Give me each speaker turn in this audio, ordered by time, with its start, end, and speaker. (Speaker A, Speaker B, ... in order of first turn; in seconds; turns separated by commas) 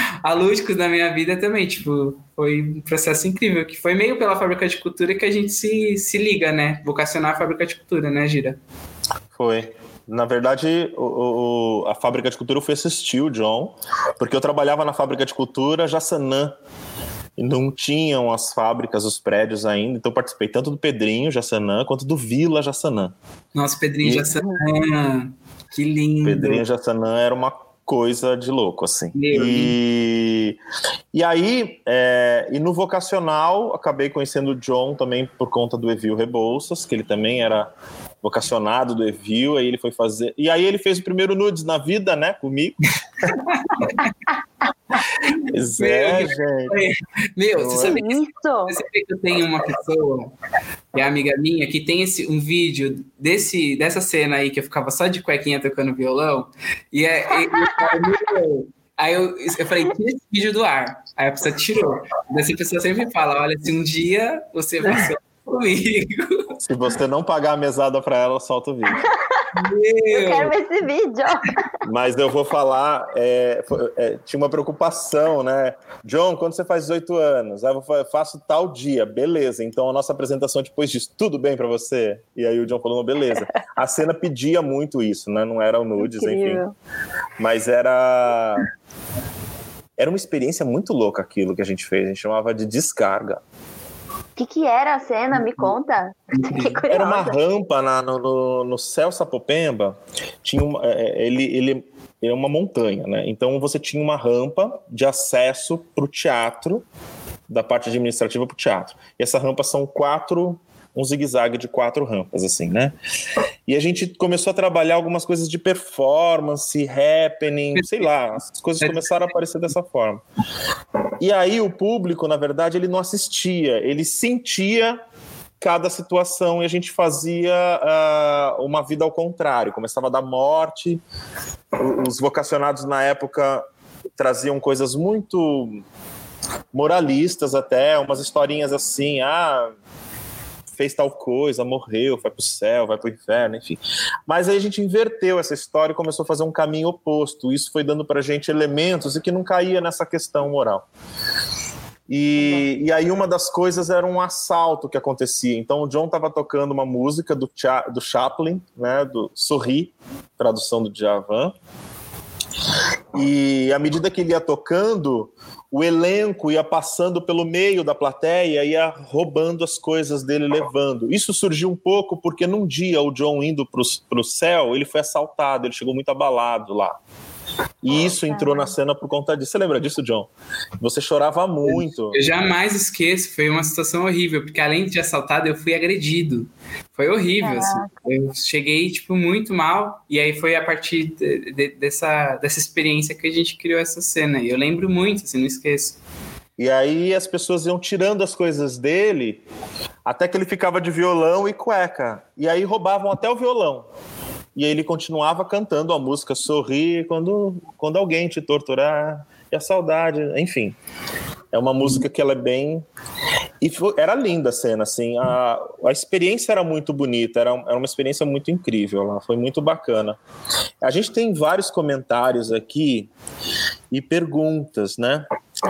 Speaker A: 0.2-8.6, Speaker B: 9.3-16.6, Speaker B: 17.4-23.1, Speaker A: 23.6-26.6, Speaker B: 24.0-24.4, Speaker B: 26.2-30.6, Speaker A: 29.1-29.8, Speaker B: 31.1-43.3, Speaker A: 43.4-44.1, Speaker A: 45.3-50.4, Speaker B: 45.5-46.8, Speaker B: 47.6-48.0, Speaker C: 47.8-48.7, Speaker A: 50.9-66.5, Speaker B: 66.6-69.1, Speaker C: 69.0-69.5, Speaker A: 69.5-70.5, Speaker C: 70.1-71.6, Speaker B: 71.8-86.6, Speaker C: 86.0-86.7, Speaker B: 87.4-88.7, Speaker B: 90.0-93.4, Speaker C: 94.4-97.3, Speaker A: 95.3-95.7, Speaker A: 96.3-96.8, Speaker B: 96.9-106.8, Speaker B: 107.5-112.9, Speaker B: 113.7-120.2, Speaker A: 117.8-118.1, Speaker A: 118.8-119.3, Speaker B: 121.2-125.0, Speaker B: 125.6-131.0, Speaker B: 131.8-133.6, Speaker B: 134.2-135.8, Speaker B: 136.7-139.7, Speaker B: 140.7-150.9, Speaker B: 152.1-161.5, Speaker B: 163.1-177.0, Speaker B: 177.8-182.2, Speaker C: 178.3-178.7, Speaker A: 181.7-196.0, Speaker C: 187.4-187.9, Speaker B: 196.6-199.4, Speaker B: 200.1-203.9, Speaker B: 204.6-210.8, Speaker B: 211.5-212.9, Speaker B: 213.6-220.2, Speaker B: 220.8-223.1, Speaker B: 223.9-225.3